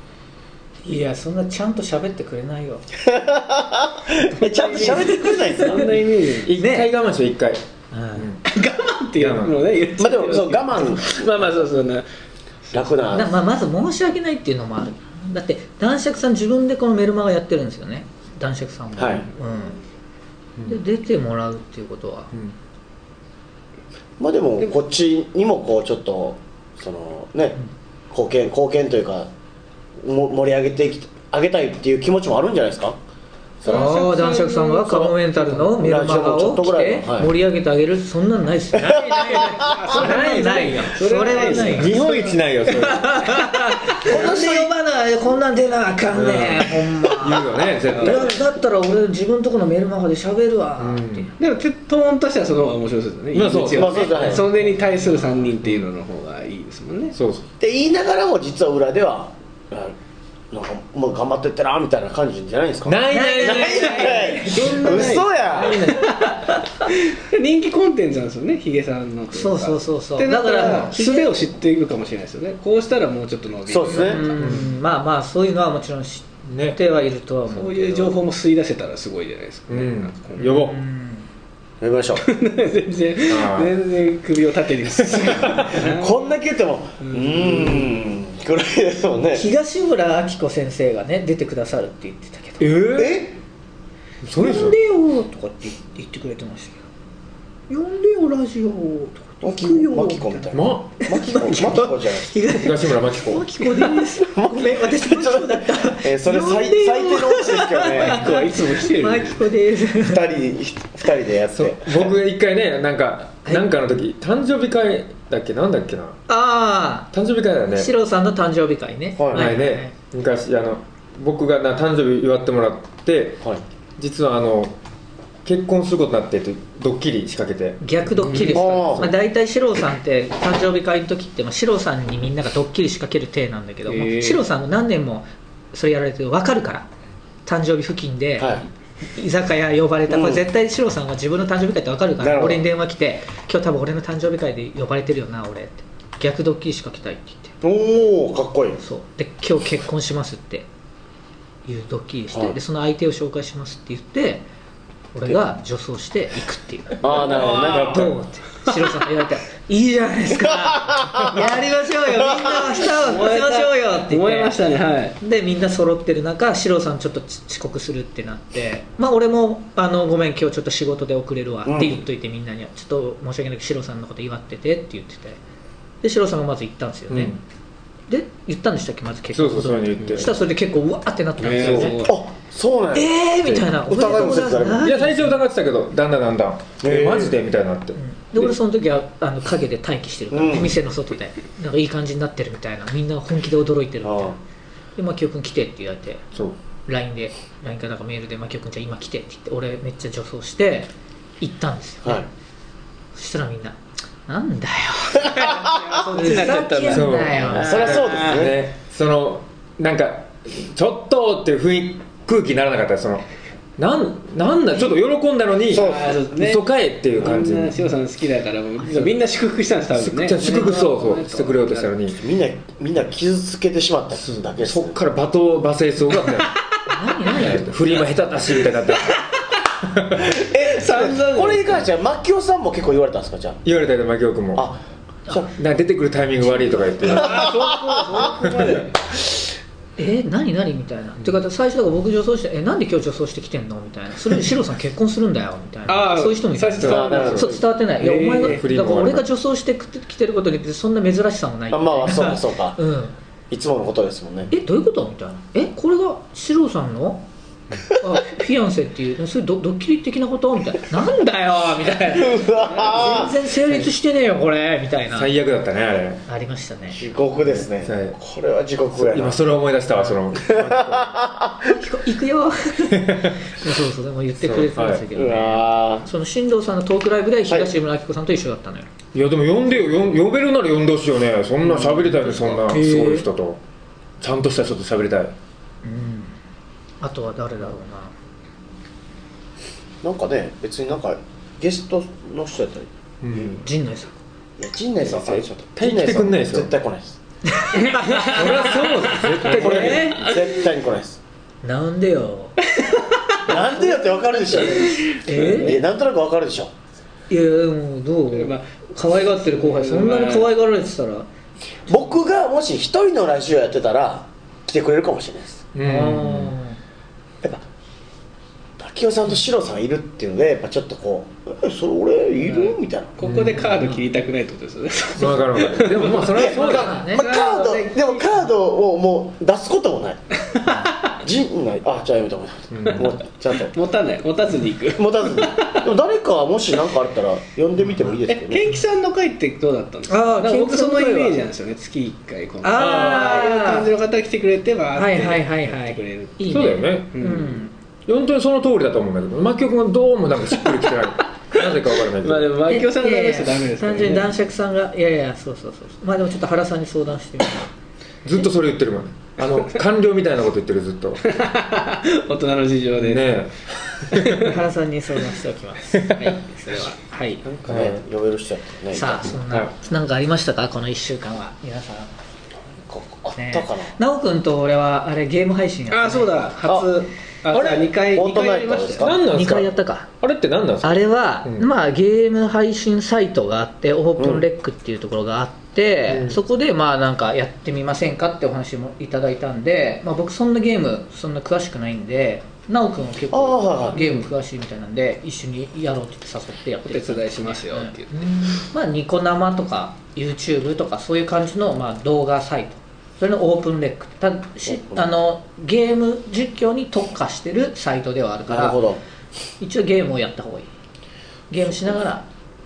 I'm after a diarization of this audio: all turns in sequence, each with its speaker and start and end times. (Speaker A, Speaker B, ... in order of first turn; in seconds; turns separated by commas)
Speaker A: 0.8-2.8, Speaker B: 3.0-6.0, Speaker C: 4.4-6.5, Speaker D: 6.4-7.6, Speaker A: 6.5-6.9, Speaker A: 7.9-8.3, Speaker D: 8.1-8.4, Speaker C: 8.4-12.0, Speaker D: 9.2-9.7, Speaker B: 10.0-11.5, Speaker C: 12.7-12.9, Speaker B: 12.7-13.4, Speaker A: 13.1-19.8, Speaker B: 18.9-19.2, Speaker A: 20.7-22.3, Speaker B: 24.2-27.6, Speaker B: 28.1-29.3, Speaker B: 30.0-33.0, Speaker B: 33.6-34.0, Speaker C: 33.6-34.9, Speaker A: 33.7-42.1, Speaker B: 34.9-37.3, Speaker B: 38.8-39.9, Speaker C: 39.6-42.7, Speaker D: 41.6-43.5, Speaker A: 42.8-51.3, Speaker B: 44.0-44.7, Speaker D: 46.1-48.4, Speaker C: 47.9-48.2, Speaker D: 50.8-51.3, Speaker C: 51.4-57.2, Speaker D: 53.3-54.5, Speaker B: 53.7-54.5, Speaker D: 57.1-57.5, Speaker B: 57.6-60.0, Speaker B: 60.5-65.8, Speaker D: 62.8-64.7, Speaker A: 63.1-66.6, Speaker C: 64.4-74.4, Speaker D: 65.5-66.0, Speaker A: 69.3-71.4, Speaker D: 70.6-70.9, Speaker B: 73.7-74.2, Speaker A: 73.9-78.2, Speaker D: 74.3-74.7, Speaker D: 76.4-76.8, Speaker C: 77.5-80.7, Speaker D: 79.7-80.8, Speaker A: 80.4-81.3, Speaker B: 81.8-82.2, Speaker C: 82.2-86.2, Speaker D: 83.2-83.8, Speaker D: 85.2-85.7, Speaker B: 85.4-89.5, Speaker C: 87.0-87.9, Speaker A: 89.3-92.8, Speaker D: 92.6-93.3, Speaker B: 92.9-93.4, Speaker D: 94.2-94.8, Speaker A: 94.4-96.8, Speaker A: 97.7-110.2, Speaker B: 99.4-102.4, Speaker D: 100.5-101.1, Speaker D: 102.5-103.5, Speaker B: 104.3-108.3, Speaker C: 108.0-109.4, Speaker B: 110.0-112.1, Speaker D: 111.5-116.2, Speaker A: 116.3-117.1, Speaker D: 117.1-117.9, Speaker A: 117.7-119.9, Speaker B: 119.2-119.5, Speaker D: 119.3-123.4, Speaker D: 124.0-124.8, Speaker D: 125.4-128.5, Speaker A: 127.8-136.9, Speaker C: 128.2-128.6, Speaker B: 128.5-129.1, Speaker C: 133.9-134.4, Speaker A: 137.4-147.5, Speaker B: 138.4-138.6, Speaker B: 140.1-140.4, Speaker B: 142.2-142.7, Speaker B: 147.6-148.8, Speaker A: 148.8-150.7, Speaker A: 151.6-154.4, Speaker A: 155.1-164.5, Speaker B: 157.0-158.1, Speaker D: 157.1-158.2, Speaker B: 160.3-162.9, Speaker C: 163.0-165.2, Speaker A: 165.2-175.4, Speaker B: 171.6-172.0, Speaker A: 176.0-177.4, Speaker D: 177.1-177.4, Speaker A: 178.1-182.1, Speaker D: 179.3-180.4, Speaker C: 181.4-182.2, Speaker D: 181.6-181.9, Speaker B: 182.0-184.8, Speaker A: 182.9-185.4, Speaker D: 184.8-188.0, Speaker B: 186.8-187.3, Speaker A: 187.9-194.3, Speaker B: 190.3-190.8, Speaker B: 194.0-194.3, Speaker A: 194.9-196.2, Speaker A: 196.8-202.2, Speaker A: 203.1-208.0, Speaker C: 205.4-208.4, Speaker D: 206.9-213.2, Speaker B: 207.5-208.6, Speaker D: 213.8-217.8, Speaker B: 215.7-216.2, Speaker C: 215.7-221.9, Speaker D: 219.9-222.2, Speaker B: 222.1-224.9, Speaker D: 224.2-226.6, Speaker A: 226.9-227.7, Speaker D: 227.2-229.2, Speaker D: 229.9-230.3, Speaker B: 230.3-233.6, Speaker C: 230.5-231.8, Speaker D: 233.6-234.7, Speaker B: 234.5-235.5, Speaker D: 235.5-237.5, Speaker C: 237.0-238.9, Speaker B: 237.0-238.3, Speaker D: 238.3-238.8, Speaker A: 240.0-253.1, Speaker C: 245.9-248.6, Speaker D: 246.8-247.6, Speaker B: 246.8-247.6, Speaker D: 248.4-249.2, Speaker B: 251.7-252.8, Speaker B: 253.5-254.5, Speaker A: 254.5-257.2, Speaker A: 257.9-265.3, Speaker B: 262.1-263.3, Speaker C: 262.6-263.0, Speaker D: 265.1-266.2, Speaker A: 266.3-267.0, Speaker B: 266.9-269.4, Speaker D: 267.4-268.1, Speaker D: 268.9-271.2, Speaker B: 270.4-271.7, Speaker A: 271.6-278.9, Speaker D: 272.9-273.4, Speaker D: 274.4-275.1, Speaker B: 275.1-276.1, Speaker D: 279.1-283.6, Speaker A: 281.7-283.2, Speaker D: 284.2-285.3, Speaker A: 285.8-286.3, Speaker A: 287.0-288.1, Speaker B: 290.0-293.6, Speaker D: 293.2-293.6, Speaker A: 293.4-294.2, Speaker B: 294.6-297.2, Speaker D: 295.0-296.7, Speaker A: 297.6-298.6, Speaker C: 297.8-300.6, Speaker D: 298.2-300.1, Speaker B: 299.5-301.2, Speaker A: 299.6-300.2, Speaker A: 301.6-302.6, Speaker B: 303.4-306.7, Speaker A: 303.4-305.8, Speaker C: 305.3-305.8, Speaker A: 307.3-311.3, Speaker C: 308.3-308.6, Speaker C: 309.1-310.5, Speaker B: 311.9-315.6, Speaker D: 315.7-316.6, Speaker A: 315.8-316.8, Speaker B: 318.8-323.1, Speaker C: 322.4-326.4, Speaker D: 323.2-323.9, Speaker D: 325.1-327.0, Speaker B: 326.3-330.2, Speaker A: 326.3-327.4, Speaker C: 327.1-328.2, Speaker C: 330.5-331.1, Speaker B: 331.2-333.7, Speaker D: 332.7-333.1, Speaker C: 333.5-335.9, Speaker B: 334.9-338.6, Speaker C: 338.3-347.6, Speaker A: 340.1-341.4, Speaker A: 342.6-343.9, Speaker D: 342.8-343.3, Speaker A: 344.9-347.7, Speaker D: 346.5-347.2, Speaker D: 348.1-352.5, Speaker C: 351.5-354.3, Speaker A: 352.7-357.7, Speaker D: 358.2-361.2, Speaker C: 361.2-363.4, Speaker D: 362.9-364.5, Speaker C: 364.1-364.4, Speaker A: 364.4-367.4, Speaker C: 366.2-367.4, Speaker B: 367.4-369.4, Speaker D: 367.7-368.0, Speaker A: 368.9-372.1, Speaker B: 372.8-373.9, Speaker A: 373.4-376.5, Speaker C: 375.9-379.1, Speaker D: 377.5-377.9, Speaker B: 378.0-379.2, Speaker D: 379.0-381.7, Speaker A: 379.2-380.1, Speaker A: 380.8-408.8, Speaker B: 384.2-384.4, Speaker D: 386.1-386.4, Speaker B: 393.3-394.0, Speaker C: 396.8-398.6, Speaker B: 404.6-405.1, Speaker B: 408.5-409.0, Speaker A: 409.6-410.7, Speaker A: 411.5-412.2